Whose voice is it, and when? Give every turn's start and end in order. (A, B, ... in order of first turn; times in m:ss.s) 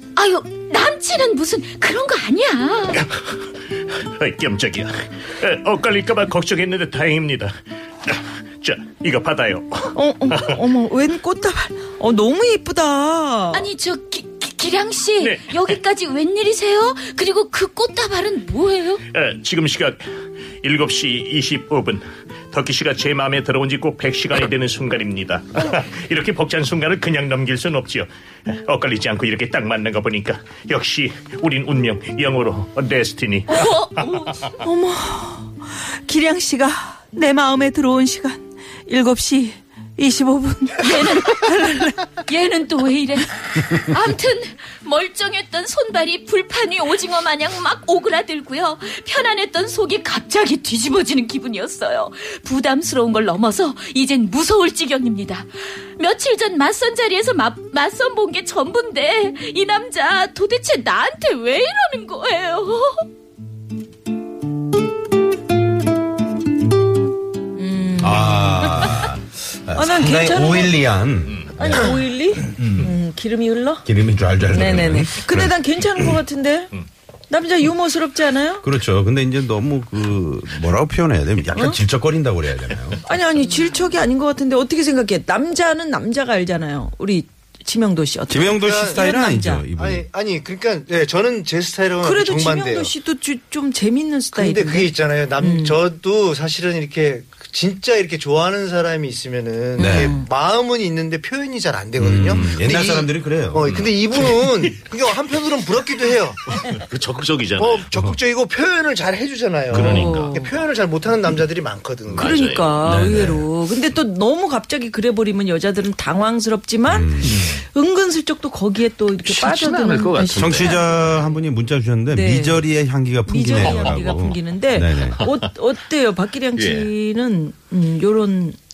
0:00.2-0:03.0 A
0:04.0-0:10.6 B
0:09.9-0:13.7 C
0:13.5-0:19.0 A
0:15.2-0:15.6 B
0:19.1-0:20.0 B
0:20.6-0:34.1 B
0:33.5-0:34.6 A
0:34.6-0:42.0 C
0:40.8-1:03.0 A
1:07.6-1:09.0 C
1:08.0-1:12.9 D
1:09.7-1:10.8 C
1:11.3-1:11.5 B
1:11.6-1:13.8 C
1:13.8-1:16.2 D
1:14.5-1:16.7 C
1:17.3-1:18.6 C
1:18.6-1:23.0 D
1:21.5-1:21.8 C
1:23.0-1:29.6 C
1:28.3-1:30.0 D
1:28.6-1:29.0 E
1:29.8-1:32.9 E
1:32.0-1:35.8 C
1:34.3-1:46.5 E
1:39.8-1:40.2 C
1:39.8-1:40.2 D
1:42.0-1:43.8 D
1:43.6-1:44.7 B
1:46.6-1:47.9 B
1:47.6-1:52.5 E
1:49.7-1:50.3 B
1:49.8-1:50.5 C
1:52.1-1:52.8 B
1:52.2-2:01.3 C
1:52.8-1:53.5 D
1:56.9-1:57.5 D
1:57.2-1:57.6 B
1:59.2-2:00.8 B
2:00.4-2:05.2 D
2:02.1-2:02.6 C
2:03.2-2:08.6 C
2:03.6-2:04.0 B
2:06.6-2:06.9 B